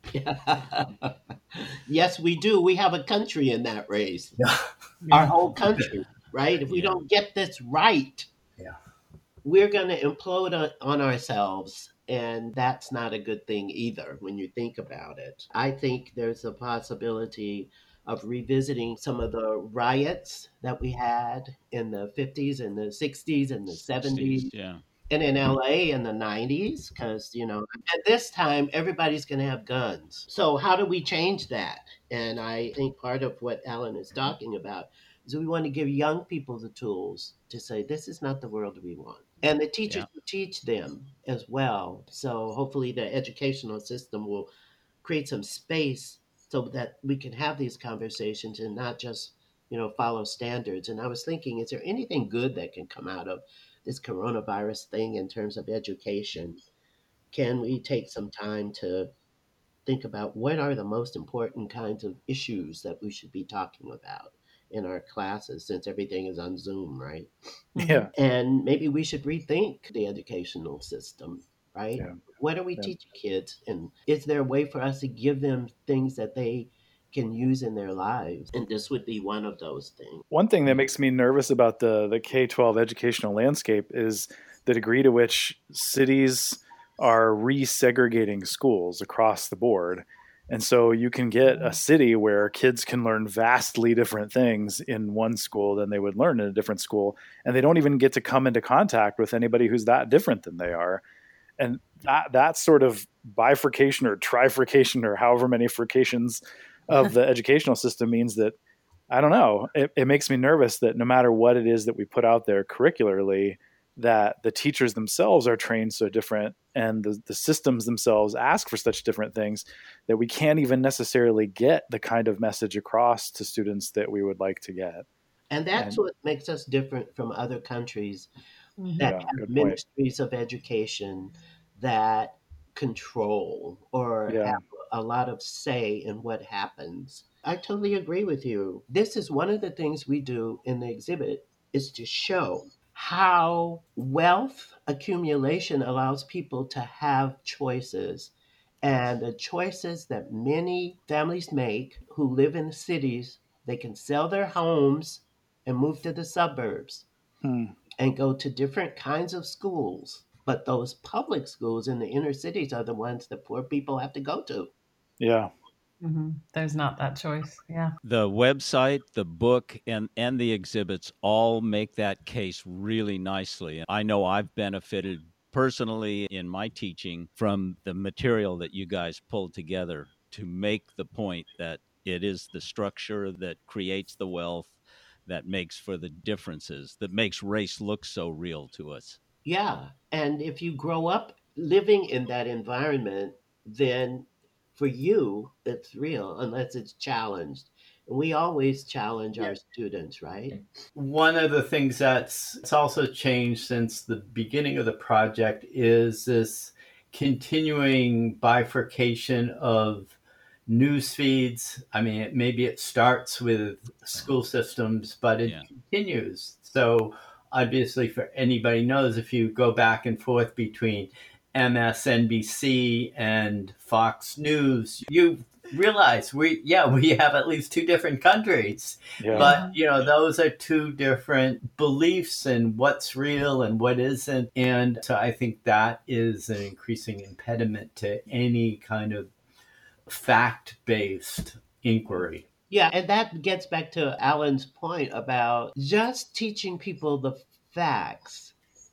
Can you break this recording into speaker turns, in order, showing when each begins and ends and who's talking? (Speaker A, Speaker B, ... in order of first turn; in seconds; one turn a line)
Speaker A: 0.1-4.4
Speaker B: 4.4-4.6
Speaker C: 5.0-5.3
Speaker A: 5.1-8.3
Speaker B: 5.2-5.9
Speaker D: 6.7-7.0
Speaker A: 9.4-24.5
Speaker D: 23.9-24.8
Speaker A: 25.1-44.5
Speaker A: 45.0-56.6
Speaker A: 57.3-59.1
Speaker A: 59.9-67.3
Speaker C: 67.8-68.1
Speaker E: 67.8-68.1
Speaker A: 68.1-80.2
Speaker E: 80.3-101.0
Speaker C: 91.5-91.8
Speaker E: 101.6-108.5
Speaker E: 109.1-125.0
Speaker A: 125.5-128.3
Speaker C: 128.8-129.1
Speaker A: 129.0-157.1
Speaker E: 129.0-129.8
Speaker E: 134.3-134.6
Speaker E: 157.4-157.7
Speaker A: 158.0-164.7
Speaker E: 165.2-165.5
Speaker C: 166.0-167.9
Speaker D: 168.0-189.2
Speaker A: 189.4-200.6
Speaker B: 200.9-239.3
Speaker E: 229.2-229.5
Speaker C: 229.3-229.8
Speaker B: 240.1-242.4
Speaker A: 242.7-248.5